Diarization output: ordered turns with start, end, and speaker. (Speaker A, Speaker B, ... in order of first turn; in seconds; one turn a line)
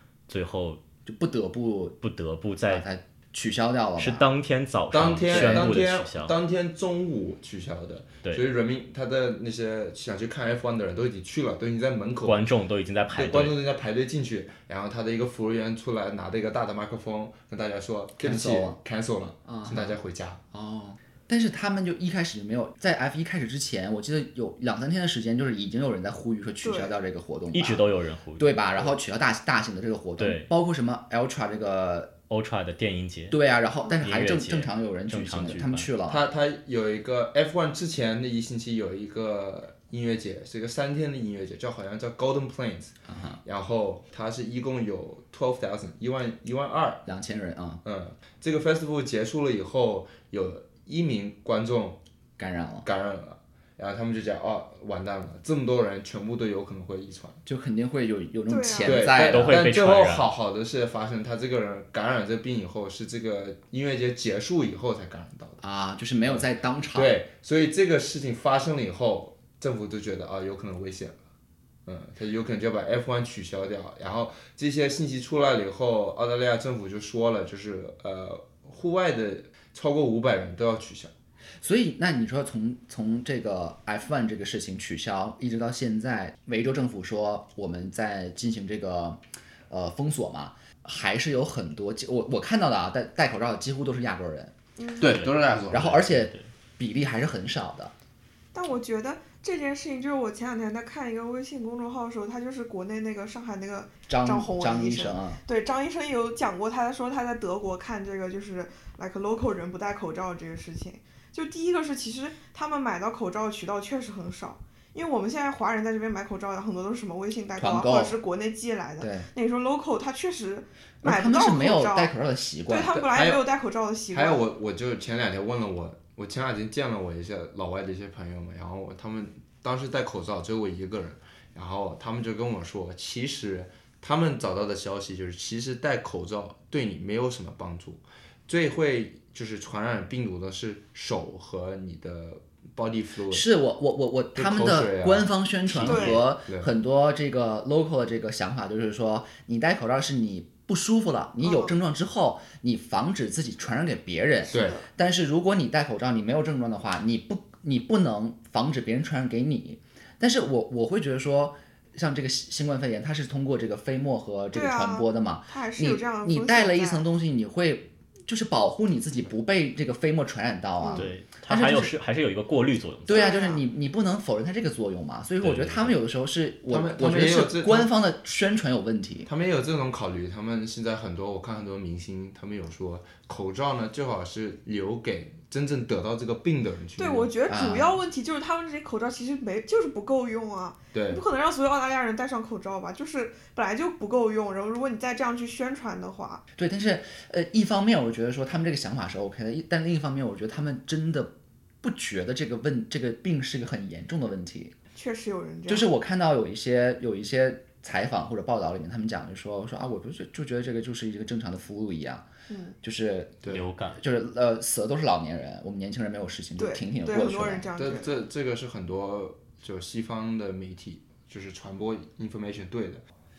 Speaker A: 0.3-0.8
Speaker B: 1.1-2.0
Speaker A: 2.0-2.9
Speaker B: 2.7-4.3
Speaker A: 4.0-6.4
Speaker C: 4.9-12.4
Speaker B: 5.3-5.7
Speaker A: 12.2-13.6
Speaker C: 13.1-20.4
Speaker B: 18.2-18.8
Speaker B: 19.5-20.0
Speaker B: 20.5-32.1
Speaker D: 26.6-27.0
Speaker A: 27.5-28.6
Speaker A: 30.2-30.5
Speaker A: 32.3-33.4
Speaker B: 33.3-36.3
Speaker A: 34.0-35.9
Speaker C: 36.1-47.1
Speaker B: 43.1-43.4
Speaker B: 47.1-47.8
Speaker C: 47.8-52.0
Speaker B: 52.4-52.9
Speaker C: 52.8-57.4
Speaker B: 57.5-59.6
Speaker D: 58.5-59.1
Speaker C: 58.8-65.6
Speaker A: 59.2-60.3
Speaker B: 65.6-67.2
Speaker C: 66.3-71.2
Speaker C: 71.9-81.1
Speaker B: 81.6-94.5
Speaker D: 94.8-95.1
Speaker C: 95.0-96.0
Speaker A: 95.0-96.5
Speaker B: 95.7-97.9
Speaker D: 98.5-122.1
Speaker B: 104.1-105.4
Speaker B: 117.6-118.2
Speaker B: 119.0-119.3
Speaker B: 121.0-123.1
Speaker D: 122.7-124.5
Speaker C: 123.0-123.5
Speaker C: 124.1-143.5
Speaker B: 143.3-171.9
Speaker C: 144.3-146.7
Speaker D: 145.8-146.2
Speaker D: 151.4-151.7
Speaker D: 154.4-154.9
Speaker C: 154.5-154.8
Speaker D: 164.5-167.1
Speaker D: 170.8-171.1
Speaker A: 170.9-173.4
Speaker B: 173.1-179.3
Speaker D: 173.1-173.6
Speaker A: 175.4-175.9
Speaker C: 176.7-177.9
Speaker C: 179.3-187.3
Speaker D: 187.0-196.4
Speaker B: 187.5-188.0
Speaker C: 190.9-191.2
Speaker B: 196.6-204.7
Speaker D: 204.9-205.9
Speaker B: 205.7-212.2
Speaker D: 212.5-212.8
Speaker B: 212.8-217.7
Speaker A: 213.5-214.0
Speaker D: 216.6-218.1
Speaker C: 217.8-223.0